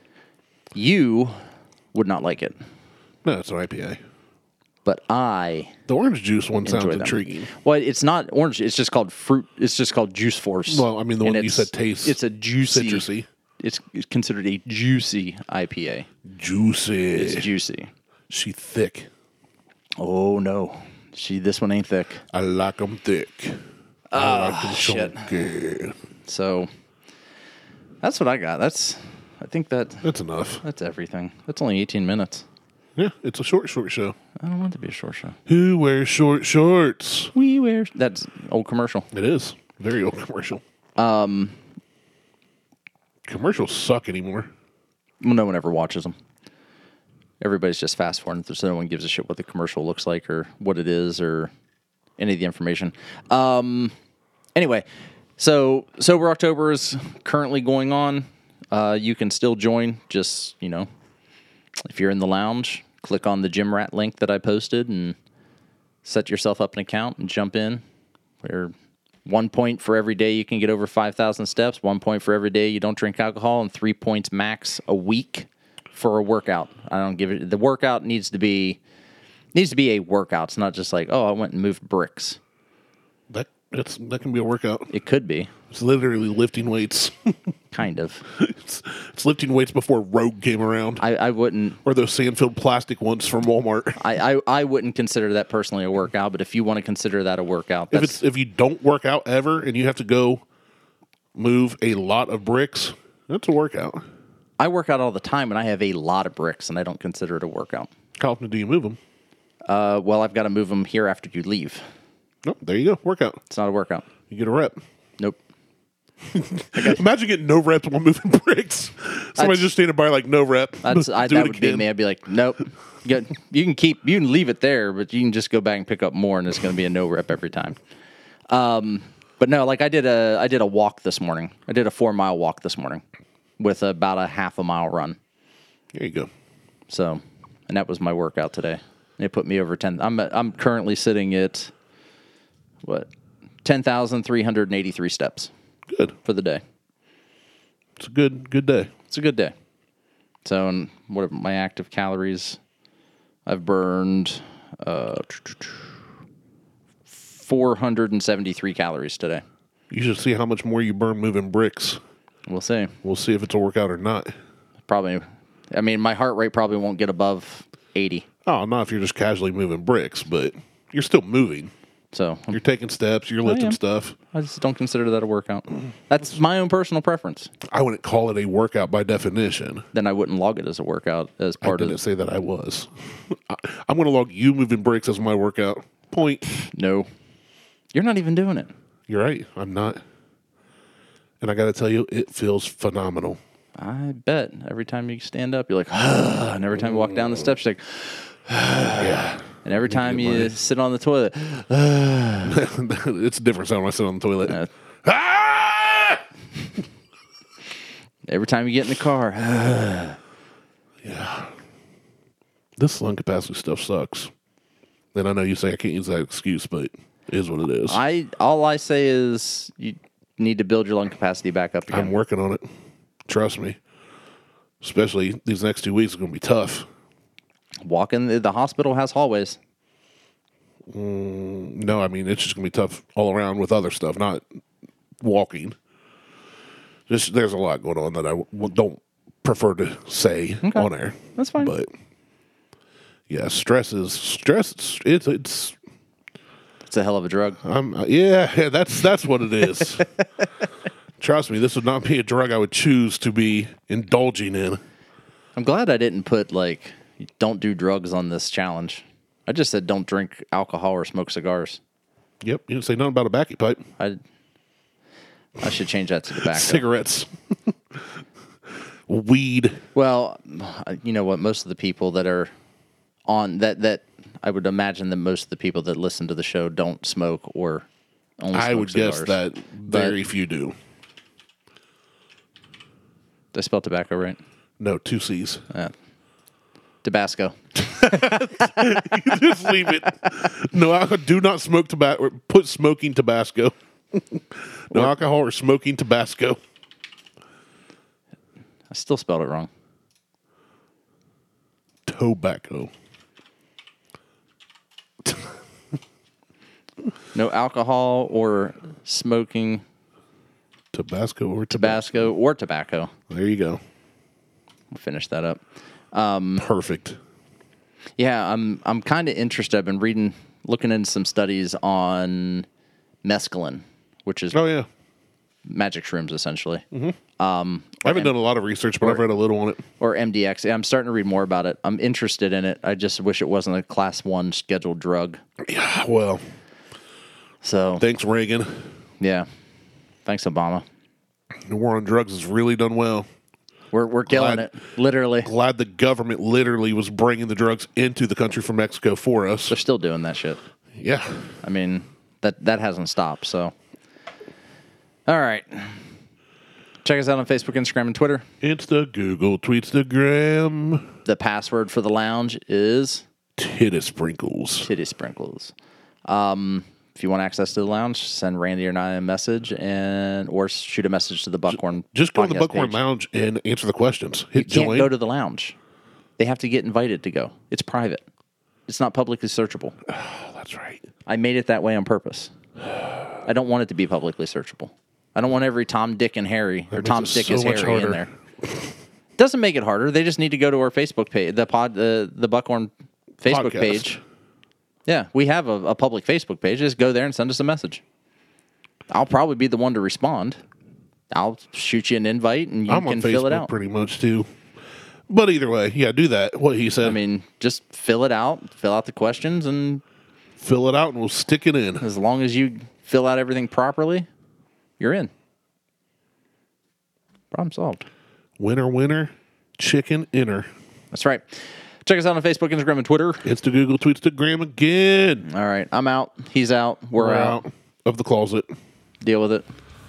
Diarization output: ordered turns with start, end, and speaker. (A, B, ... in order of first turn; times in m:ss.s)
0:00.8-0:01.4 A
0:01.9-0:02.6 A
0:03.2-0:04.0 B
0:04.8-0:05.8 A
0:05.9-0:07.5 B
0:06.6-0:13.1 A
0:10.7-0:13.3 B
0:13.6-0:16.1 A
0:16.2-0:17.5 B
0:17.2-0:17.9 A
0:18.3-0:19.1 B
0:20.0-0:22.2 A
0:22.3-0:23.6 B
0:24.1-0:25.3 A
0:24.2-0:26.0 B
0:26.2-0:26.7 A
0:28.0-0:30.1 A
0:30.0-0:30.6 B
0:30.6-0:32.5 A
0:33.0-0:34.2 B
0:34.4-0:35.4 A
0:35.5-0:37.3 B
0:37.4-0:39.1 A
0:39.1-0:40.6 B
0:41.0-0:41.6 A
0:43.3-0:44.5 B
0:45.2-0:46.2 A
0:47.4-0:51.5 A
0:52.2-0:53.9 A
0:54.6-0:54.8 A
0:55.4-1:00.9 A
1:01.9-1:05.2 A
1:06.0-1:07.8 A
1:08.4-1:08.7 A
1:09.2-1:18.8 A
1:19.5-1:22.4 A
1:23.3-1:24.9 B
1:24.9-1:25.5 A
1:25.7-1:27.5 B
1:27.7-1:28.2 A
1:28.3-1:31.0 B
1:31.0-1:31.8 A
1:31.8-1:34.0 B
1:34.0-1:38.2 A
1:37.9-1:40.4 B
1:41.4-1:44.0 B
1:44.6-1:47.9 A
1:48.2-1:49.0 B
1:49.7-1:51.8 A
1:52.4-1:53.4 B
1:53.5-1:54.1 A
1:54.3-1:54.8 B
1:56.3-2:01.9 B
1:56.8-1:57.0 A
1:59.4-1:59.7 A
2:00.8-2:07.8 A
2:08.5-2:13.0 A
2:13.6-2:15.2 A
2:15.9-2:16.3 B
2:16.9-2:21.7 A
2:22.8-2:23.1 A
2:23.6-2:25.5 A
2:25.9-2:26.2 B
2:26.2-2:26.6 A
2:28.0-2:28.9 B
2:29.1-2:29.6 A
2:30.4-2:32.6 A
2:33.5-2:35.9 A
2:37.1-2:39.4 A
2:39.9-2:42.0 B
2:42.5-2:43.0 A
2:43.0-2:44.3 B
2:44.9-2:48.2 A
2:48.5-2:51.7 B
2:52.1-2:52.6 A
2:52.5-2:54.2 B
2:53.4-2:53.8 A
2:54.3-2:57.5 A
2:57.7-2:59.9 B
2:59.9-3:02.0 A
3:01.6-3:06.4 B
3:06.6-3:07.1 A
3:07.9-3:08.7 A
3:09.1-3:10.0 B
3:11.4-3:13.4 B
3:13.8-3:22.6 A
3:16.8-3:17.2 B
3:19.0-3:20.6 B
3:22.5-3:26.2 B
3:28.3-3:30.2 A
3:31.0-3:31.5 B
3:32.8-3:34.3 B
3:35.1-3:38.0 B
3:37.9-3:42.1 A
3:41.9-3:42.6 B
3:43.3-3:43.8 B
3:44.8-3:46.9 B
3:47.8-3:49.6 A
3:50.9-3:54.4 B
3:55.2-3:55.8 B
3:57.1-4:01.9 B
4:00.6-4:01.7 A
4:03.3-4:05.8 B
4:06.9-4:07.6 A
4:07.6-4:10.1 B
4:09.8-4:10.4 A
4:11.2-4:14.8 B
4:15.6-4:21.8 A
4:22.4-4:23.8 B
4:25.6-4:26.8 A
4:26.3-4:28.2 B
4:29.1-4:29.8 B
4:30.0-4:32.5 A
4:33.3-4:37.9 A
4:38.4-4:40.2 A
4:38.5-4:40.8 B
4:43.5-4:44.4 A
4:44.8-4:45.6 B
4:47.0-4:49.5 A
4:47.9-4:56.6 B
4:58.9-4:59.7 A
5:02.1-5:02.9 B
5:07.4-5:09.8 A
5:10.9-5:12.3 B
5:11.7-5:13.1 A
5:13.3-5:13.8 B
5:14.9-5:15.6 A
5:16.1-5:16.6 A
5:16.6-5:17.2 B
5:18.2-5:22.7 A
5:23.2-5:24.6 A
5:24.5-5:24.9 B
5:25.6-5:26.8 A
5:26.9-5:27.2 B
5:27.4-5:28.3 A
5:28.0-5:29.8 B
5:30.0-5:35.4 A
5:35.6-5:36.4 B
5:37.6-5:38.0 A
5:38.0-5:38.9 B
5:39.2-5:39.5 A
5:40.3-5:40.8 A
5:41.7-5:43.3 B
5:43.9-5:45.5 A
5:44.3-5:44.7 B
5:45.4-5:49.8 B
5:49.7-5:50.6 A
5:51.0-5:51.5 B
5:51.6-5:53.7 A
5:55.3-5:56.1 A
5:57.0-5:58.4 A
5:58.6-6:01.2 B
6:01.2-6:03.2 A
6:03.6-6:04.9 B
6:04.8-6:05.7 A
6:06.3-6:13.0 A
6:11.7-6:15.1 B
6:14.6-6:15.8 A
6:16.4-6:18.2 A
6:18.9-6:20.0 A
6:20.1-6:21.1 B
6:21.3-6:22.5 A
6:23.4-6:28.3 A
6:26.9-6:28.7 B
6:29.4-6:34.2 A
6:33.5-6:34.2 B
6:35.1-6:38.0 A
6:39.1-6:40.6 A
6:41.3-6:43.7 A
6:42.9-6:44.5 B
6:45.3-6:47.2 B
6:47.0-6:50.0 A
6:50.6-6:52.0 B
6:52.0-6:54.3 A
6:55.0-6:55.3 A
6:57.5-6:58.0 A
6:58.6-7:00.7 B
7:01.1-7:03.4 A
7:03.4-7:05.5 B
7:05.4-7:07.6 A
7:07.2-7:08.7 B
7:09.2-7:09.7 A